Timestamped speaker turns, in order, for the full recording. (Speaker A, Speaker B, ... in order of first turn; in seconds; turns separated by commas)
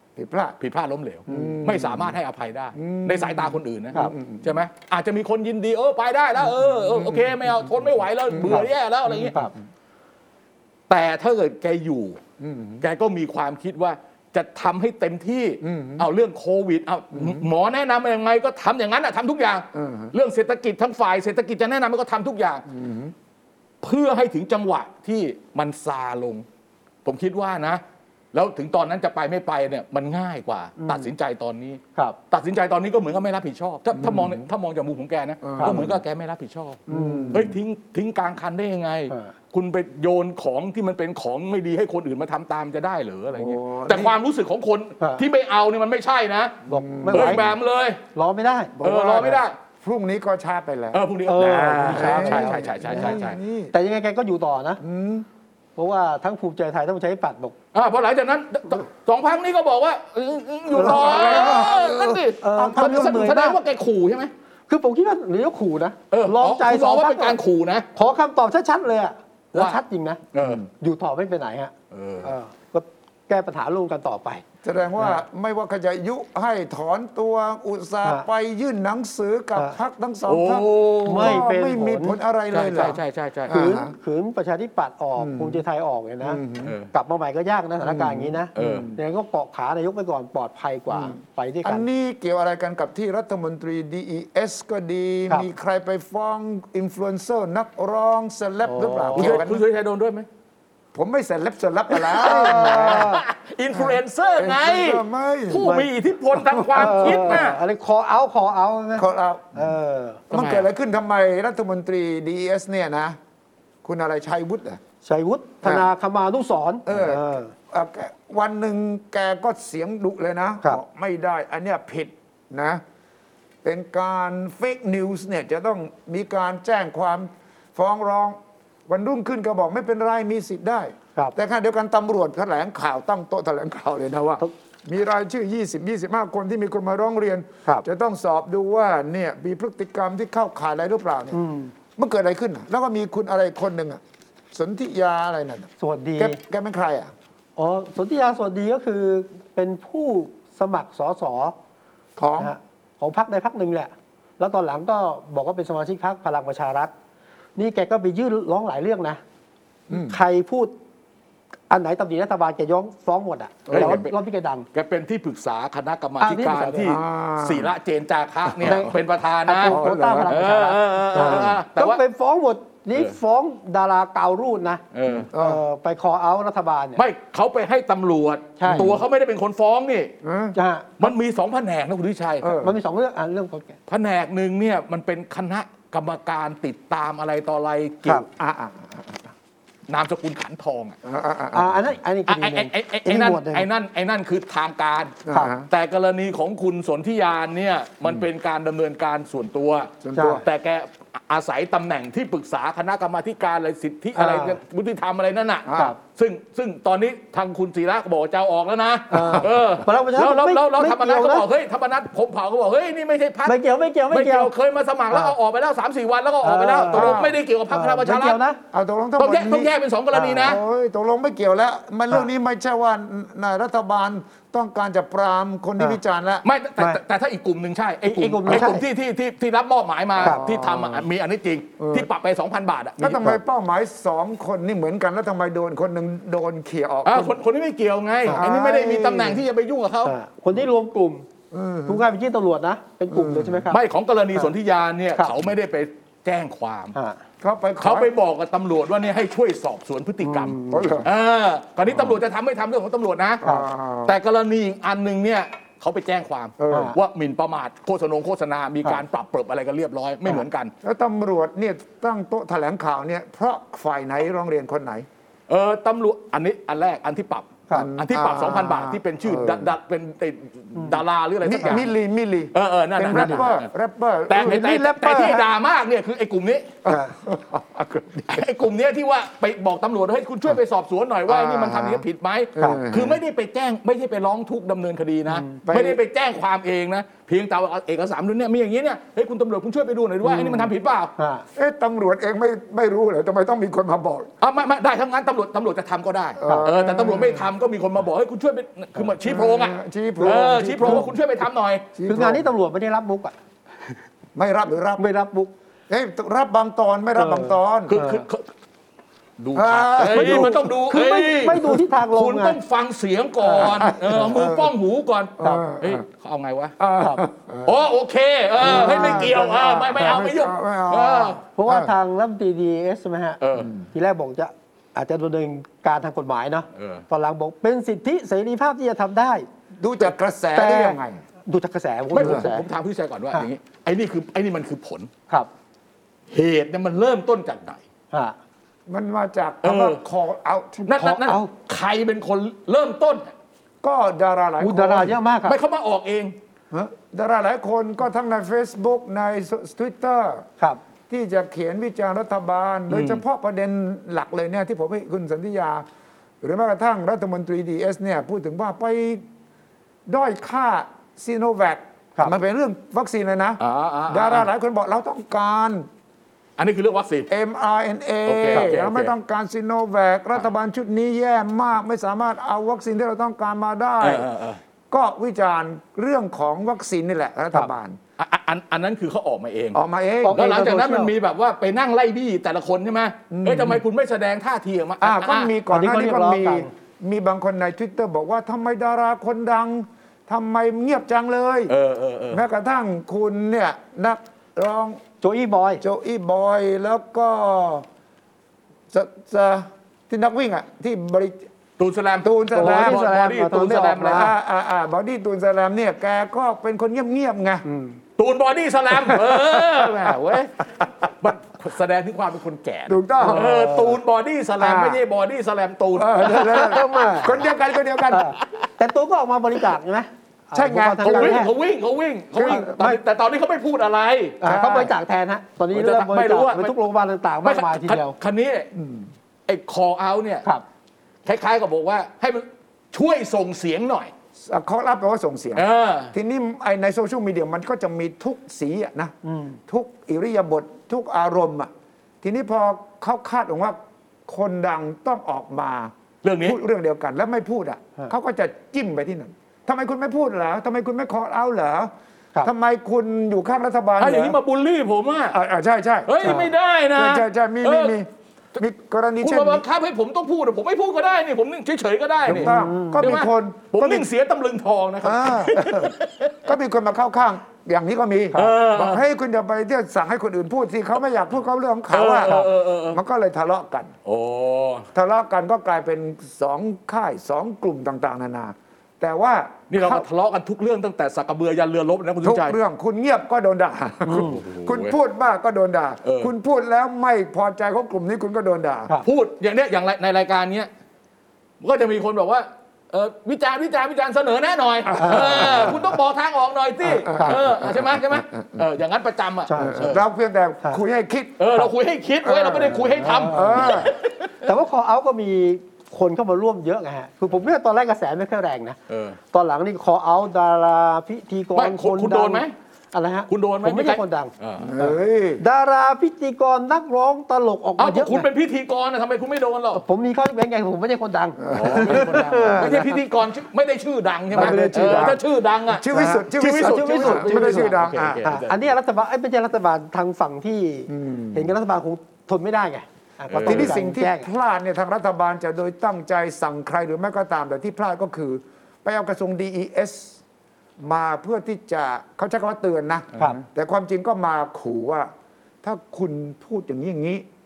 Speaker A: 0.1-0.6, Speaker B: 0.6-9.3, Speaker A: 1.3-2.1, Speaker C: 1.3-1.5, Speaker A: 2.8-4.6, Speaker A: 6.4-7.5, Speaker A: 8.3-8.7, Speaker C: 8.4-9.5, Speaker B: 10.9-12.2, Speaker A: 12.4-12.8, Speaker B: 12.8-22.6, Speaker A: 15.6-16.1, Speaker A: 17.1-17.5, Speaker A: 19.7-20.1, Speaker A: 22.7-23.1, Speaker B: 23.8-26.4, Speaker B: 27.0-27.8, Speaker B: 28.3-48.0, Speaker C: 30.8-31.1, Speaker A: 33.9-34.5, Speaker A: 35.4-36.0, Speaker C: 35.6-35.8, Speaker C: 36.9-37.4, Speaker A: 36.9-37.6, Speaker A: 43.3-44.1, Speaker C: 46.7-47.5, Speaker A: 46.7-47.5, Speaker C: 48.1-49.4, Speaker A: 48.8-51.0, Speaker B: 48.8-49.6, Speaker B: 50.9-53.4, Speaker C: 51.2-53.2, Speaker A: 51.8-53.7, Speaker C: 53.7-54.8, Speaker A: 54.8-55.3, Speaker C: 55.8-57.5, Speaker B: 57.7-64.3, Speaker C: 60.7-61.7, Speaker A: 60.7-63.3, Speaker C: 62.4-63.6, Speaker C: 64.7-67.4, Speaker B: 66.1-67.8, Speaker C: 67.9-70.2, Speaker B: 69.5-69.8, Speaker B: 70.3-70.6, Speaker A: 70.4-70.6, Speaker C: 70.8-74.4, Speaker B: 71.9-72.3, Speaker A: 74.6-83.9, Speaker B: 80.2-81.4, Speaker C: 81.0-82.2, Speaker B: 82.5-83.5, Speaker C: 83.5-86.4, Speaker A: 85.2-85.6, Speaker A: 86.2-86.7, Speaker B: 86.6-86.9, Speaker C: 86.9-91.8, Speaker A: 87.8-89.0, Speaker B: 88.5-88.9, Speaker A: 90.9-99.6, Speaker C: 98.6-99.4, Speaker B: 99.2-100.3, Speaker A: 100.9-105.7, Speaker B: 102.0-107.6, Speaker C: 102.1-103.2, Speaker C: 105.6-105.9, Speaker A: 106.3-107.4, Speaker C: 106.7-110.2, Speaker A: 109.0-109.7, Speaker B: 110.3-110.7, Speaker A: 110.3-113.2, Speaker A: 113.8-114.8, Speaker C: 115.0-117.5, Speaker A: 115.6-115.9, Speaker A: 116.8-122.8, Speaker A: 123.6-141.4, Speaker C: 141.3-141.7, Speaker A: 141.9-144.0, Speaker A: 144.5-147.1, Speaker C: 145.8-146.4, Speaker C: 147.6-151.5, Speaker A: 152.2-152.5, Speaker C: 152.4-156.9, Speaker C: 157.6-159.2, Speaker A: 159.9-160.2, Speaker C: 160.0-160.7, Speaker C: 161.7-164.7, Speaker A: 163.7-164.0, Speaker B: 163.7-164.1, Speaker B: 164.7-172.0, Speaker C: 166.2-167.0, Speaker A: 166.8-167.7, Speaker A: 168.5-168.8, Speaker C: 168.6-168.9, Speaker C: 169.4-177.0, Speaker A: 169.6-170.4, Speaker A: 171.1-171.6, Speaker B: 174.9-175.3, Speaker A: 175.3-175.6, Speaker B: 176.9-180.1, Speaker C: 178.6-178.9, Speaker A: 178.7-179.0, Speaker A: 180.2-180.6, Speaker C: 180.5-180.9, Speaker B: 181.0-182.6, Speaker A: 182.4-182.8, Speaker C: 182.6-183.8, Speaker B: 183.9-188.2, Speaker A: 188.3-189.3, Speaker B: 189.9-190.9, Speaker A: 191.0-191.9, Speaker C: 191.5-193.7, Speaker B: 192.3-218.4, Speaker A: 195.2-195.7, Speaker A: 200.0-200.4, Speaker C: 200.1-200.4, Speaker C: 204.1-204.6, Speaker A: 205.7-205.9, Speaker C: 209.1-211.4, Speaker C: 213.4-214.5, Speaker C: 216.4-218.6, Speaker A: 216.9-217.4, Speaker A: 218.7-219.7, Speaker B: 219.2-220.6, Speaker C: 220.1-220.6, Speaker A: 220.4-226.4, Speaker B: 226.4-233.3, Speaker C: 228.0-228.8, Speaker A: 230.2-231.0, Speaker A: 231.8-232.1, Speaker A: 233.0-237.4, Speaker B: 237.0-240.1, Speaker A: 238.3-239.4, Speaker C: 240.0-241.2, Speaker A: 241.5-242.1, Speaker C: 241.9-243.8, Speaker A: 243.1-243.7, Speaker B: 243.7-246.9, Speaker C: 246.9-247.2, Speaker A: 247.4-248.1, Speaker B: 247.8-253.4, Speaker C: 250.2-251.0, Speaker A: 250.7-251.1, Speaker A: 251.9-252.2, Speaker A: 253.4-254.2, Speaker B: 254.0-260.7, Speaker A: 256.6-256.9, Speaker C: 256.7-256.9, Speaker A: 260.8-265.1, Speaker B: 265.5-271.9, Speaker A: 267.7-269.7, Speaker A: 271.4-275.4, Speaker B: 272.5-273.7, Speaker C: 273.1-273.5, Speaker B: 274.3-276.8, Speaker A: 276.8-278.5, Speaker C: 276.9-277.1, Speaker B: 278.3-291.1, Speaker A: 281.3-282.0, Speaker A: 282.6-283.2, Speaker C: 285.3-285.6, Speaker A: 285.6-286.0, Speaker A: 290.2-290.7, Speaker C: 291.2-291.4, Speaker A: 291.5-294.3, Speaker B: 294.4-301.9, Speaker A: 296.4-297.5, Speaker A: 299.2-301.1, Speaker C: 300.2-301.0, Speaker A: 301.9-302.4, Speaker C: 302.1-303.3, Speaker A: 304.3-305.0, Speaker C: 305.0-305.5, Speaker A: 305.9-307.9, Speaker C: 307.2-308.2, Speaker B: 307.9-308.5, Speaker B: 309.4-316.8, Speaker A: 309.5-310.8, Speaker C: 310.1-312.6, Speaker C: 313.4-314.3, Speaker A: 313.5-314.7, Speaker A: 315.4-316.0, Speaker A: 316.8-317.8, Speaker C: 317.0-317.2, Speaker B: 317.6-321.4, Speaker A: 318.6-321.9, Speaker C: 318.6-320.2, Speaker C: 321.6-323.4, Speaker B: 323.4-323.7, Speaker A: 323.5-323.8, Speaker C: 323.9-329.5, Speaker B: 326.7-327.0, Speaker A: 329.8-331.2, Speaker C: 330.5-332.6, Speaker B: 332.1-335.1, Speaker A: 332.2-332.5, Speaker B: 336.3-337.8, Speaker C: 338.1-338.4, Speaker A: 338.9-340.9, Speaker B: 339.6-340.0, Speaker B: 340.9-343.3, Speaker C: 340.9-341.5, Speaker A: 343.8-345.2, Speaker C: 344.6-345.6, Speaker B: 345.4-346.4, Speaker A: 346.7-350.4, Speaker A: 351.1-355.9, Speaker B: 352.9-353.2, Speaker A: 356.4-359.2, Speaker A: 360.1-365.9, Speaker B: 363.6-364.5, Speaker B: 366.6-367.3, Speaker A: 367.3-374.3, Speaker B: 368.2-369.1, Speaker B: 374.0-374.6, Speaker A: 374.9-378.0, Speaker B: 378.2-379.8, Speaker A: 379.7-380.5, Speaker C: 380.2-381.1, Speaker B: 380.3-385.5, Speaker A: 383.3-383.8, Speaker A: 385.0-391.7, Speaker C: 385.7-386.7, Speaker B: 391.7-392.4, Speaker A: 392.3-395.0, Speaker C: 395.2-395.8, Speaker A: 395.8-397.9, Speaker A: 398.9-401.5, Speaker B: 401.8-404.3, Speaker A: 402.2-403.1, Speaker C: 402.5-404.3, Speaker A: 403.8-407.6, Speaker C: 407.6-408.0, Speaker B: 408.2-410.7, Speaker A: 408.9-410.4, Speaker B: 411.2-416.9, Speaker A: 412.9-413.5, Speaker C: 413.2-414.0, Speaker A: 414.6-415.0, Speaker A: 415.9-418.3, Speaker C: 416.3-417.4, Speaker C: 418.1-421.5, Speaker A: 420.5-421.5, Speaker B: 421.0-424.4, Speaker A: 422.3-422.8, Speaker C: 422.4-423.0, Speaker C: 424.4-428.1, Speaker A: 424.4-424.9, Speaker B: 425.7-426.7, Speaker B: 427.4-428.7, Speaker A: 428.7-429.1, Speaker B: 429.5-430.4, Speaker B: 431.2-434.1, Speaker A: 434.4-439.1, Speaker B: 435.6-436.1, Speaker C: 439.2-439.6, Speaker A: 439.7-441.7, Speaker A: 442.2-454.4, Speaker B: 446.2-446.6, Speaker B: 454.0-455.4, Speaker A: 455.3-459.6, Speaker B: 456.1-457.9, Speaker C: 456.2-456.5, Speaker B: 459.2-466.4, Speaker A: 462.2-464.1, Speaker C: 462.3-463.0, Speaker A: 465.0-473.9, Speaker B: 468.3-469.0, Speaker B: 471.9-473.0, Speaker B: 474.0-474.9, Speaker A: 474.9-480.1, Speaker B: 479.7-482.6, Speaker A: 482.2-488.9, Speaker B: 484.1-484.9, Speaker B: 486.0-486.3, Speaker B: 489.0-490.7, Speaker B: 491.6-500.0, Speaker A: 494.9-495.9, Speaker C: 495.0-495.7, Speaker A: 496.8-498.6, Speaker C: 497.1-497.4, Speaker C: 499.5-499.9, Speaker A: 499.6-501.6, Speaker B: 501.4-504.3, Speaker A: 502.2-503.9, Speaker C: 502.8-503.7, Speaker C: 504.4-508.8, Speaker B: 508.9-509.2, Speaker C: 509.3-518.2, Speaker B: 511.5-512.5, Speaker B: 513.3-514.7, Speaker A: 514.6-515.4, Speaker B: 517.8-519.8, Speaker C: 519.7-523.0, Speaker A: 521.4-522.6, Speaker B: 521.5-528.6, Speaker C: 524.3-525.2, Speaker A: 524.3-528.3, Speaker C: 525.9-534.3, Speaker A: 530.9-531.5, Speaker B: 533.3-533.7, Speaker A: 533.4-540.2, Speaker A: 540.8-545.1, Speaker A: 545.6-547.2